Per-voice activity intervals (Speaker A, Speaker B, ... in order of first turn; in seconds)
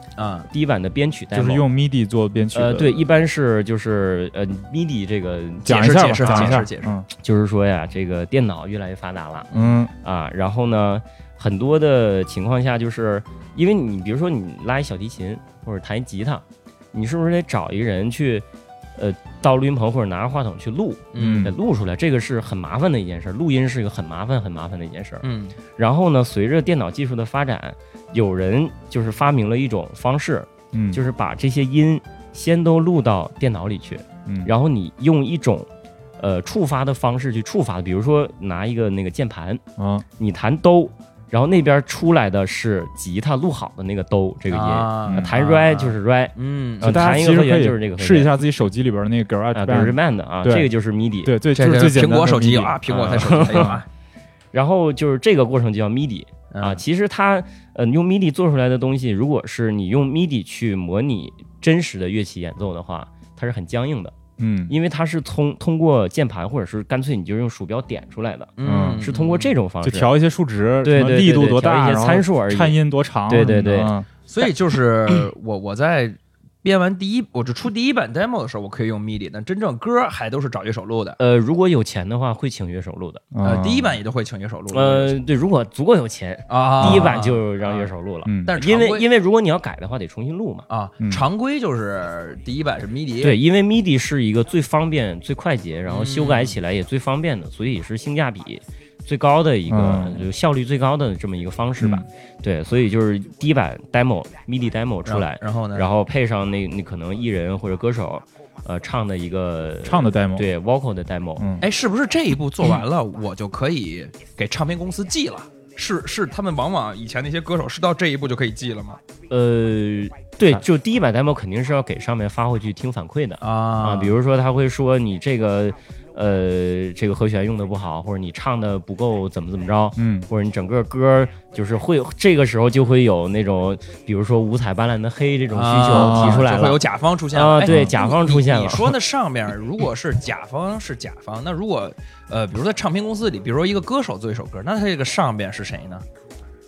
Speaker A: 0.2-0.5, 5.7-6.9, 21.1-21.5, 25.2-25.6, 44.5-47.0, 51.5-53.9, 56.5-56.8, 68.6-69.5, 74.3-81.2, 83.4-85.2, 86.5-87.9, 88.5-89.1, 90.7-93.4, 95.9-96.6, 105.0-105.8, 111.6-119.0, 123.4-124.1, 135.5-146.0
Speaker B: 0.5-1.6, 2.5-35.7, 36.2-39.6, 40.2-48.3, 49.5-51.3, 52.9-53.8, 54.5-64.1, 64.7-70.1, 70.8-72.8, 73.3-73.9, 81.2-83.2, 84.7-90.7, 93.2-111.5, 119.3-138.9
Speaker C: 1.3-3.1, 5.7-7.1, 9.5-9.9, 21.2-21.5, 30.7-31.0, 34.2-34.5, 39.8-40.0, 46.8-50.7, 51.2-52.9, 53.4-53.8, 64.4-64.7, 68.6-69.1, 69.8-74.1, 83.3-84.0, 86.8-87.1, 88.2-88.5, 91.0-91.3, 99.7-100.3, 101.8-102.0, 109.8-110.5, 111.4-111.7, 130.0-130.3, 135.9-136.5, 137.7-137.9